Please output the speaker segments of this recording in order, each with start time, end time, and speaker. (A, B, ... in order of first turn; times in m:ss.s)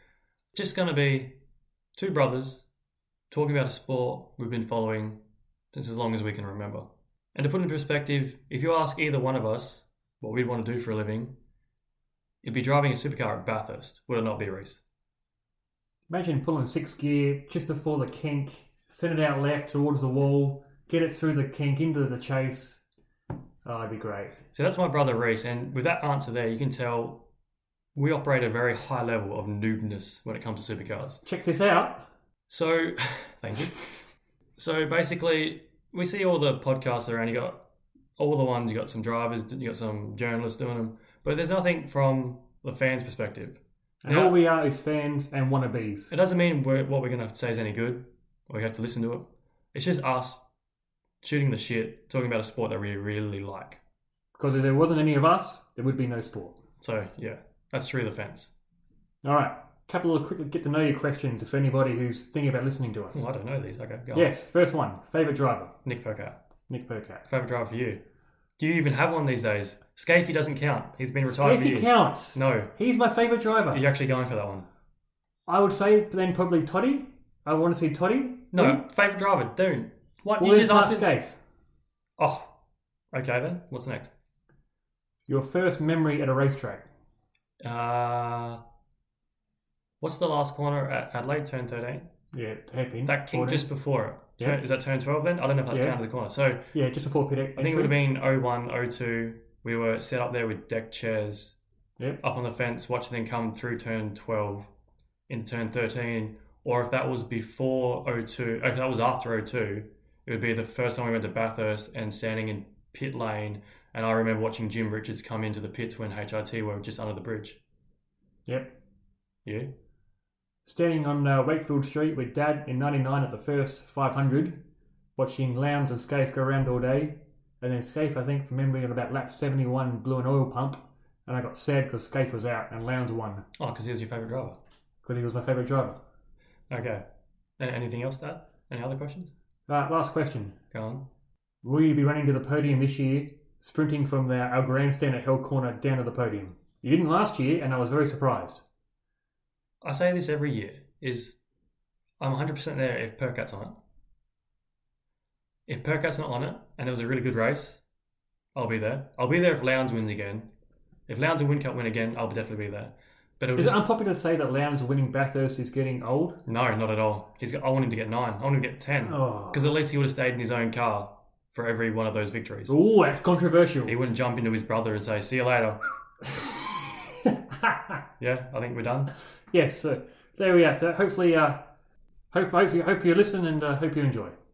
0:00.5-0:01.4 A
0:02.0-0:02.7 A
0:03.3-0:05.2 A
0:05.7-0:11.4 A
0:12.4-0:14.8 A
0:16.1-0:22.8 B
0:23.6-0:24.4 B
0:24.5-0:27.2 A
0:28.0-0:31.2 A
0:31.2-0:32.1 B
0:32.5-0:33.9 A
0:34.6-0:37.6 A
0:38.2-0:44.4 A
0:44.0-0:46.1 B
0:46.1-0:50.4 A
0:51.2-0:53.8 A
0:54.4-0:56.6 B
0:56.8-0:58.5 A
0:59.2-1:03.3 B
1:03.1-1:04.3 A
1:04.1-1:05.7 B
1:05.8-1:06.4 A
1:06.7-1:07.2 B
1:07.3-1:08.0 A
1:08.6-1:12.7 A
1:11.2-1:13.8 B
1:13.7-1:14.7 A
1:15.5-1:18.8 B
1:18.5-1:21.1 A
1:20.4-1:21.4 B
1:22.2-1:22.6 A
1:23.1-1:24.1 A
1:25.3-1:26.9 B
1:27.6-1:28.6 A
1:30.0-1:32.1 A
1:32.3-1:33.7 B
1:33.1-1:36.6 A
1:35.7-1:36.0 B
1:36.7-1:38.0 B
1:37.6-1:41.6 A
1:42.2-1:44.7 A
1:45.3-1:57.6 A
1:58.5-1:58.8 B
1:59.4-1:59.7 A
2:00.6-2:04.6 B
2:05.2-2:13.5 B
2:13.6-2:14.6 A
2:15.0-2:16.0 B
2:16.7-2:17.0 A
2:17.6-2:19.3 A
2:19.7-2:20.6 B
2:20.7-2:21.1 A
2:21.6-2:28.6 B
2:29.8-2:31.4 A
2:32.2-2:33.8 A
2:35.7-2:37.8 A
2:38.6-2:40.5 A
2:41.1-2:43.8 A
2:43.5-2:46.4 B
2:46.5-2:52.8 A
2:49.1-2:49.8 B
2:52.7-2:54.0 B
2:53.9-2:55.8 A
2:57.5-2:58.0 B
2:58.2-2:59.1 A
2:59.5-3:01.6 B
3:02.3-3:04.4 B